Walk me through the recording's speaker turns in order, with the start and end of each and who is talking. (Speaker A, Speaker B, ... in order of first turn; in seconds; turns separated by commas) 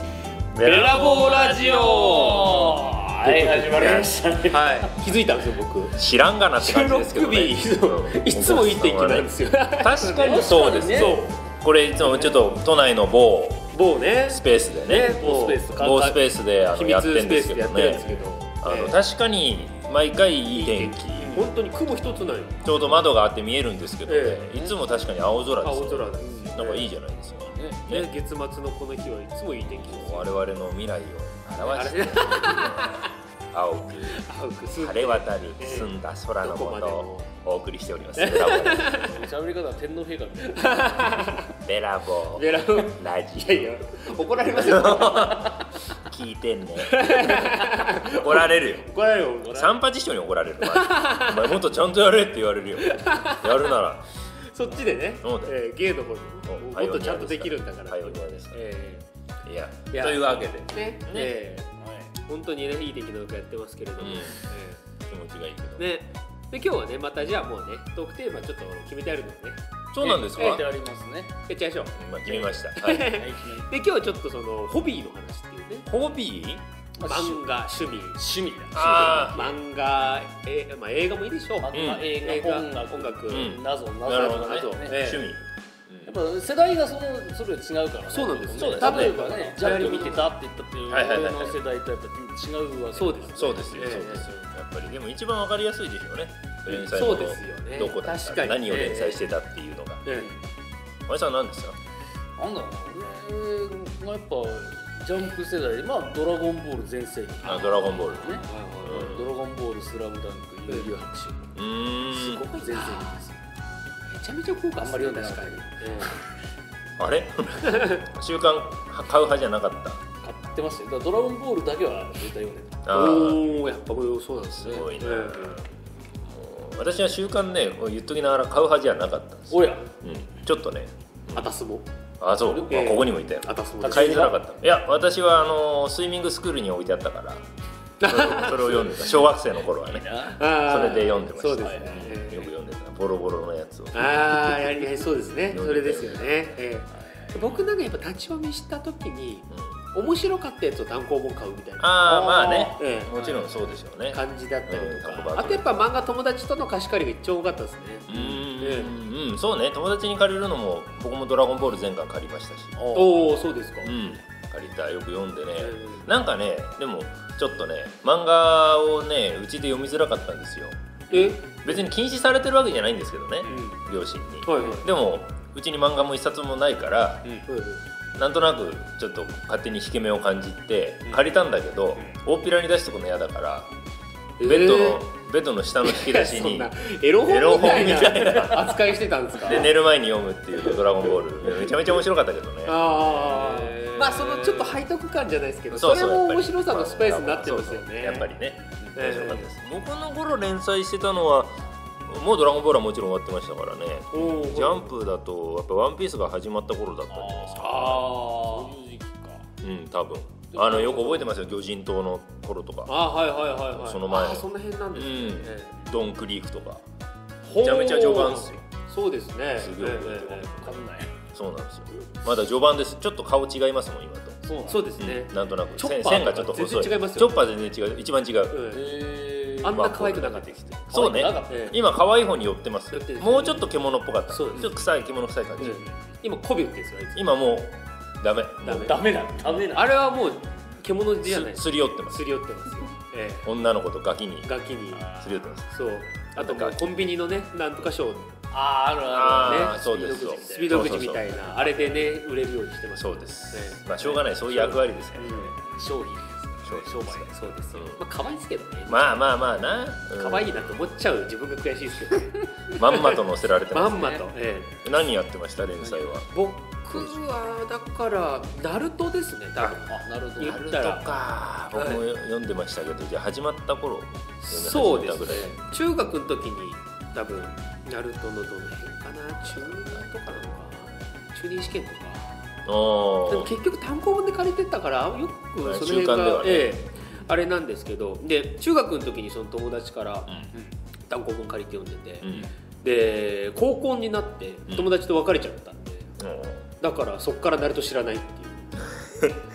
Speaker A: 0.5-4.1, Speaker B: 0.6-4.9, Speaker C: 0.7-1.6, Speaker C: 3.6-6.0, Speaker A: 5.9-13.7, Speaker C: 6.6-11.4, Speaker B: 10.2-11.2, Speaker C: 12.0-12.3, Speaker C: 13.7-16.1, Speaker A: 14.3-18.1, Speaker B: 15.0-16.2, Speaker C: 16.7-19.0, Speaker B: 18.0-18.3, Speaker A: 18.6-21.4, Speaker C: 20.5-22.7, Speaker A: 22.6-28.1, Speaker C: 24.1-24.5, Speaker C: 25.6-26.9, Speaker B: 26.2-26.6, Speaker B: 27.4-27.9, Speaker C: 27.9-30.4, Speaker A: 29.8-39.1, Speaker C: 31.6-33.1, Speaker C: 34.1-37.3, Speaker C: 38.1-39.2, Speaker B: 39.0-41.4, Speaker C: 40.4-41.5, Speaker A: 41.5-43.8, Speaker C: 42.3-45.7, Speaker A: 44.5-48.9, Speaker C: 46.8-49.8, Speaker A: 49.5-54.1, Speaker C: 50.6-51.5, Speaker C: 52.8-53.7, Speaker C: 54.4-59.0, Speaker A: 55.2-55.5, Speaker A: 56.5-58.6, Speaker A: 59.4-61.3, Speaker C: 59.9-64.8, Speaker B: 61.8-62.1, Speaker A: 64.0-64.4, Speaker A: 65.0-65.9, Speaker C: 65.8-70.6, Speaker A: 69.9-70.6, Speaker B: 70.0-71.4, Speaker C: 71.5-75.9, Speaker A: 72.0-73.0, Speaker B: 72.4-73.7, Speaker A: 75.9-76.6, Speaker B: 77.0-77.5, Speaker C: 77.0-78.2, Speaker B: 78.1-79.5, Speaker A: 78.7-79.6, Speaker C: 78.7-83.5, Speaker B: 81.6-85.2, Speaker A: 81.7-82.1, Speaker A: 83.3-86.1, Speaker C: 84.1-85.3, Speaker B: 86.0-94.1, Speaker C: 88.1-90.3, Speaker A: 88.6-90.2, Speaker A: 90.9-91.6, Speaker C: 92.9-94.5, Speaker A: 93.3-100.0, Speaker C: 96.7-99.2, Speaker B: 100.1-100.4, Speaker A: 101.1-101.8, Speaker B: 102.4-111.5, Speaker A: 107.4-109.3, Speaker C: 108.4-109.3, Speaker C: 110.7-111.0, Speaker A: 111.5-112.5, Speaker C: 112.1-113.2, Speaker B: 112.5-113.4, Speaker C: 114.1-116.2, Speaker B: 114.8-116.1, Speaker A: 117.0-120.0, Speaker C: 117.6-118.0, Speaker B: 120.2-122.9, Speaker A: 122.8-123.4, Speaker C: 122.9-125.6, Speaker A: 124.5-125.7, Speaker A: 126.3-131.5, Speaker B: 129.5-129.9, Speaker C: 131.3-131.9, Speaker A: 132.2-137.4, Speaker C: 132.7-134.4, Speaker B: 133.8-134.3, Speaker C: 138.0-139.1, Speaker A: 138.0-144.8, Speaker B: 139.8-140.4, Speaker C: 140.3-142.5, Speaker B: 141.6-142.1, Speaker C: 143.9-152.1, Speaker A: 145.4-146.4, Speaker B: 146.9-147.6, Speaker A: 151.8-155.8, Speaker B: 152.0-153.4, Speaker C: 152.8-153.2, Speaker C: 154.1-158.9, Speaker A: 158.1-162.8, Speaker B: 162.8-163.4, Speaker C: 162.9-164.2, Speaker A: 163.8-177.3, Speaker C: 165.6-166.1, Speaker C: 171.1-171.8, Speaker B: 173.4-173.8, Speaker C: 173.5-173.8, Speaker C: 174.4-174.8, Speaker C: 177.5-177.8, Speaker A: 178.1-183.7, Speaker C: 184.4-185.0, Speaker A: 184.4-186.7, Speaker C: 185.8-189.7, Speaker A: 187.2-188.8, Speaker A: 189.4-193.4, Speaker C: 192.7-198.3, Speaker B: 193.2-194.8, Speaker A: 195.7-208.1, Speaker C: 198.9-199.5, Speaker C: 204.1-204.9, Speaker B: 207.1-209.5, Speaker C: 207.6-208.7, Speaker A: 209.6-213.0, Speaker B: 210.5-211.3, Speaker C: 212.8-215.8, Speaker A: 213.7-216.8, Speaker C: 217.4-220.8, Speaker A: 217.5-218.6, Speaker A: 219.6-220.7, Speaker B: 220.6-221.2, Speaker A: 221.3-224.4, Speaker B: 224.4-224.9, Speaker C: 224.7-227.3, Speaker A: 225.0-228.6, Speaker C: 228.5-228.8, Speaker B: 228.7-229.8, Speaker C: 229.6-230.6, Speaker A: 229.7-235.8, Speaker B: 230.9-231.7, Speaker C: 231.5-231.8, Speaker C: 232.9-233.7, Speaker C: 234.3-234.7, Speaker C: 235.6-237.3, Speaker A: 237.1-239.0, Speaker C: 238.6-239.0, Speaker B: 238.8-239.9, Speaker C: 239.5-243.5, Speaker A: 241.2-242.3, Speaker A: 243.4-244.5, Speaker C: 244.4-245.1, Speaker B: 244.9-245.5, Speaker A: 245.2-245.7, Speaker C: 245.6-248.4, Speaker A: 246.3-246.9, Speaker B: 248.5-252.2, Speaker A: 249.1-251.3, Speaker C: 249.4-255.5, Speaker A: 252.9-255.5, Speaker B: 255.2-257.6, Speaker A: 256.6-258.0, Speaker C: 257.3-259.3, Speaker A: 258.9-260.7, Speaker C: 260.0-264.8, Speaker A: 262.7-264.2, Speaker B: 264.0-264.3, Speaker A: 264.8-266.3, Speaker C: 266.3-271.1, Speaker A: 266.9-267.2, Speaker B: 269.8-270.6, Speaker A: 270.4-275.6, Speaker C: 271.7-272.0, Speaker C: 274.4-282.4, Speaker A: 282.6-283.5, Speaker C: 283.3-290.4, Speaker A: 285.6-286.8, Speaker C: 291.1-296.1, Speaker A: 292.2-292.5, Speaker A: 296.2-296.7, Speaker C: 296.8-298.8, Speaker A: 299.0-299.4